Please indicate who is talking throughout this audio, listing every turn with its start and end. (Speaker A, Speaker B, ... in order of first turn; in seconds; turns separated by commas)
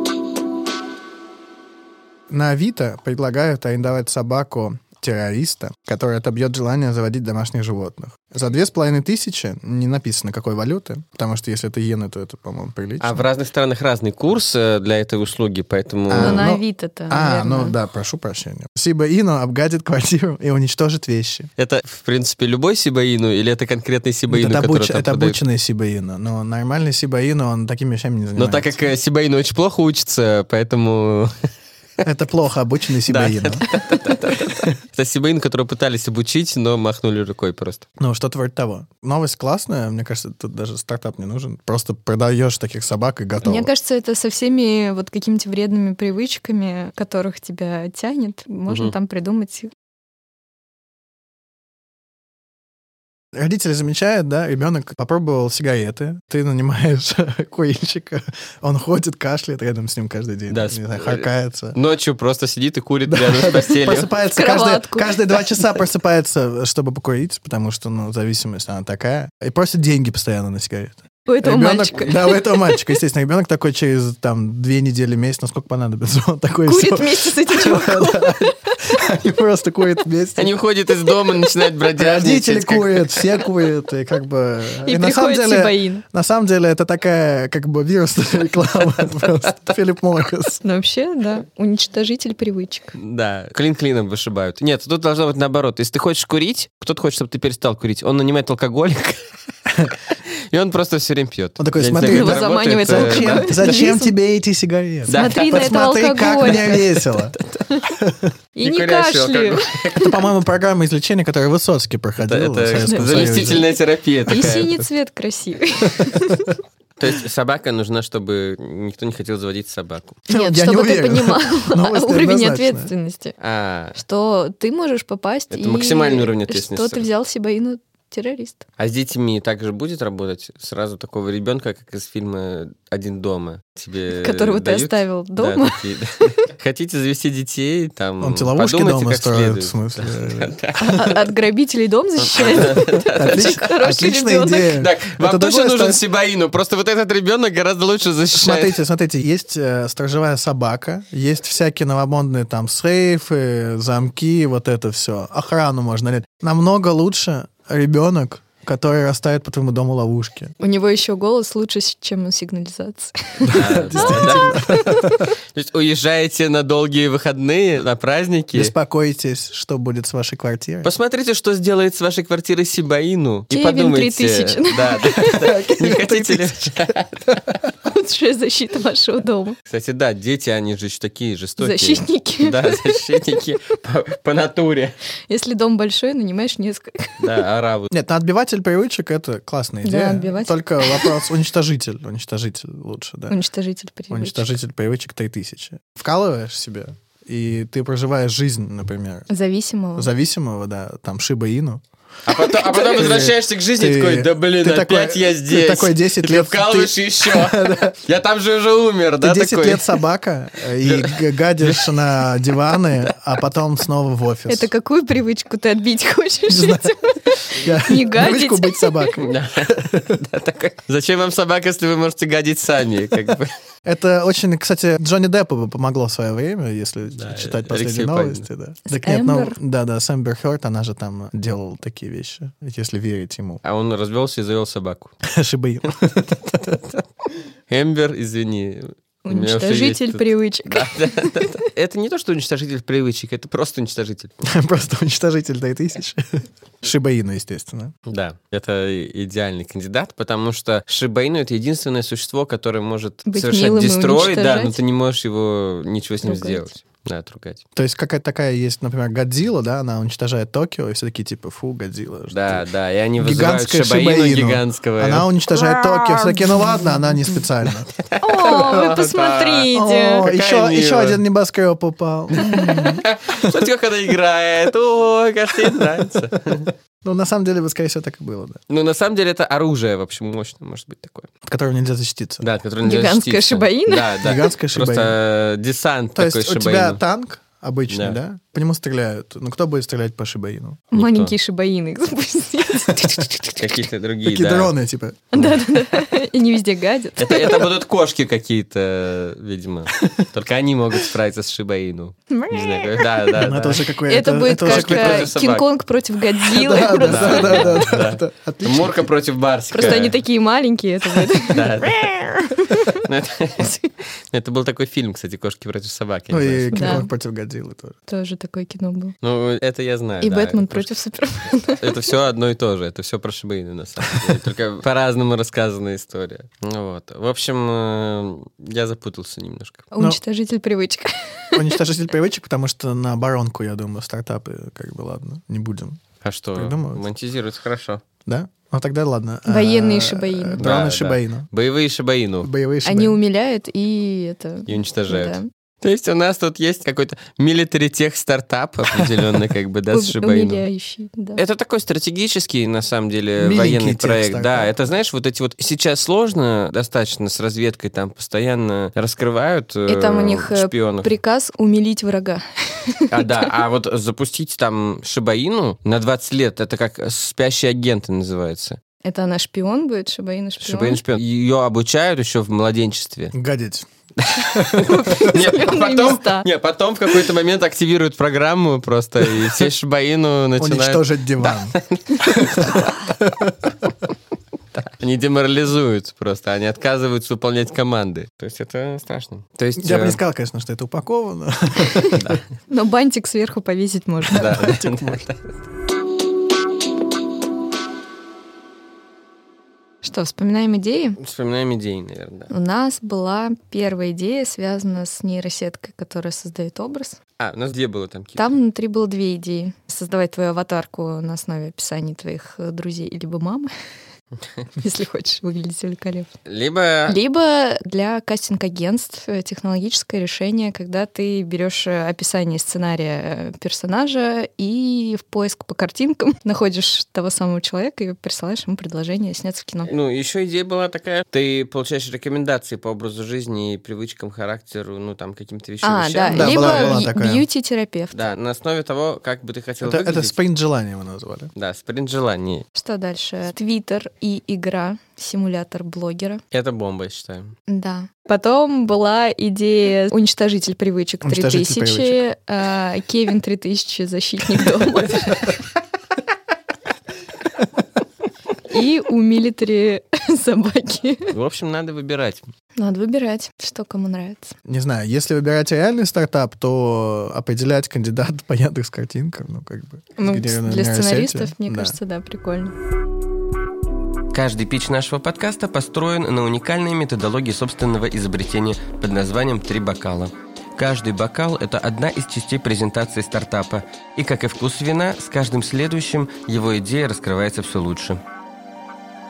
Speaker A: 2.3-13.2, Speaker B: 13.0-16.5, Speaker A: 16.1-21.5, Speaker C: 16.2-17.7, Speaker B: 21.6-25.4, Speaker A: 24.3-28.8, Speaker B: 28.4-31.4, Speaker A: 32.0-33.6, Speaker B: 33.1-37.8, Speaker A: 38.0-43.7, Speaker C: 43.4-49.7, Speaker B: 48.7-48.9, Speaker A: 53.3-61.8, Speaker B: 60.5-64.1, Speaker A: 63.1-80.5, Speaker C: 64.3-65.4, Speaker C: 71.3-72.8, Speaker C: 76.7-78.5, Speaker B: 80.3-83.3, Speaker A: 81.9-90.6, Speaker C: 84.8-86.0, Speaker C: 90.6-92.9, Speaker B: 92.9-99.2, Speaker B: 100.5-103.8, Speaker A: 101.6-107.3, Speaker C: 102.0-104.1, Speaker B: 105.0-105.6, Speaker C: 105.1-106.8, Speaker B: 106.5-107.6, Speaker A: 108.0-108.3, Speaker C: 108.5-110.1, Speaker B: 108.6-110.1, Speaker A: 110.0-113.7, Speaker B: 112.2-114.8, Speaker C: 112.7-113.6, Speaker C: 114.3-116.5, Speaker B: 117.0-120.2, Speaker A: 120.3-122.9, Speaker C: 120.3-123.3, Speaker B: 123.4-124.0, Speaker C: 124.0-128.7, Speaker B: 125.5-127.1, Speaker B: 128.8-141.1, Speaker C: 134.1-136.3, Speaker A: 138.2-141.2, Speaker C: 140.8-144.8, Speaker B: 142.2-143.6, Speaker A: 142.6-146.0, Speaker B: 144.8-148.8, Speaker A: 148.3-160.5, Speaker C: 160.6-165.1, Speaker A: 163.4-165.2, Speaker B: 163.5-168.7, Speaker A: 168.5-170.9, Speaker B: 170.8-177.4, Speaker C: 173.5-175.7, Speaker A: 175.3-177.6, Speaker C: 177.8-179.6, Speaker B: 179.7-184.9, Speaker C: 181.6-183.2, Speaker C: 185.3-187.4, Speaker B: 187.2-187.9, Speaker A: 187.9-193.4, Speaker C: 189.8-191.2, Speaker C: 193.3-194.5, Speaker A: 194.1-199.3, Speaker C: 199.3-200.1, Speaker A: 199.9-201.8, Speaker B: 202.2-210.0, Speaker A: 202.3-208.0, Speaker A: 209.2-214.7, Speaker B: 210.8-212.0, Speaker C: 214.5-219.2, Speaker A: 216.5-216.9, Speaker A: 217.5-220.1, Speaker B: 219.2-223.5, Speaker A: 223.8-233.6, Speaker B: 227.1-228.4, Speaker C: 228.9-229.6, Speaker B: 233.6-235.1, Speaker A: 235.2-236.8, Speaker B: 236.5-237.0, Speaker B: 237.7-244.4, Speaker C: 239.2-241.6, Speaker A: 244.4-247.9, Speaker B: 248.1-257.6, Speaker C: 253.3-254.8, Speaker C: 256.2-256.6, Speaker A: 257.7-262.6, Speaker B: 262.3-266.6, Speaker A: 263.2-267.9, Speaker B: 268.0-271.2, Speaker C: 268.2-270.3, Speaker A: 269.7-273.6, Speaker B: 272.4-276.7, Speaker A: 275.6-276.5, Speaker A: 277.0-278.6, Speaker B: 278.7-281.3, Speaker A: 281.4-282.4, Speaker B: 282.4-287.0, Speaker C: 282.8-284.3, Speaker A: 284.2-285.1, Speaker A: 286.1-290.9, Speaker B: 287.9-288.2, Speaker B: 290.9-291.3, Speaker C: 290.9-293.9, Speaker B: 293.6-294.7, Speaker A: 294.3-295.6, Speaker C: 295.3-297.7, Speaker B: 297.2-303.8, Speaker A: 300.0-300.2, Speaker C: 302.3-303.3, Speaker A: 303.4-305.3, Speaker C: 304.1-307.8, Speaker B: 304.6-305.7, Speaker A: 306.5-309.1, Speaker B: 307.1-310.2, Speaker C: 309.7-313.0, Speaker B: 311.4-313.8, Speaker B: 314.3-317.0, Speaker A: 316.3-317.9, Speaker C: 316.7-317.1, Speaker C: 318.1-319.1, Speaker B: 319.2-320.9, Speaker C: 320.2-322.0, Speaker B: 321.7-329.9, Speaker C: 329.9-331.8, Speaker A: 331.5-336.0, Speaker B: 336.2-338.0, Speaker A: 336.5-337.0, Speaker A: 338.2-341.5, Speaker C: 339.5-340.7, Speaker B: 340.6-342.5, Speaker A: 342.4-343.2, Speaker C: 342.8-345.5, Speaker B: 344.7-350.6, Speaker C: 349.9-351.4, Speaker B: 351.4-361.1, Speaker A: 353.4-354.7, Speaker C: 359.9-363.4, Speaker B: 363.1-368.8, Speaker C: 369.0-371.0, Speaker B: 370.6-373.4, Speaker A: 373.3-373.9, Speaker B: 374.2-382.9, Speaker A: 374.4-375.4, Speaker C: 374.9-376.5, Speaker A: 380.6-383.7, Speaker B: 384.8-390.2, Speaker A: 389.8-392.4, Speaker B: 392.1-392.4, Speaker C: 392.7-394.5, Speaker B: 394.3-395.6, Speaker A: 394.3-395.2, Speaker C: 400.0-401.2, Speaker B: 401.2-402.5, Speaker C: 402.5-407.2, Speaker B: 407.4-408.5, Speaker C: 408.4-413.7, Speaker C: 414.8-416.3, Speaker B: 416.4-417.2, Speaker C: 417.1-429.9, Speaker B: 429.9-437.0, Speaker C: 435.8-438.1, Speaker A: 436.3-437.4, Speaker B: 438.1-440.4, Speaker A: 439.8-441.5, Speaker B: 441.5-442.6, Speaker C: 442.7-446.4, Speaker B: 446.5-447.5, Speaker C: 447.7-455.6, Speaker A: 451.2-452.2, Speaker C: 458.7-461.3, Speaker B: 461.3-462.4, Speaker C: 462.8-464.5, Speaker A: 464.6-472.0, Speaker C: 470.2-472.7, Speaker B: 474.3-488.2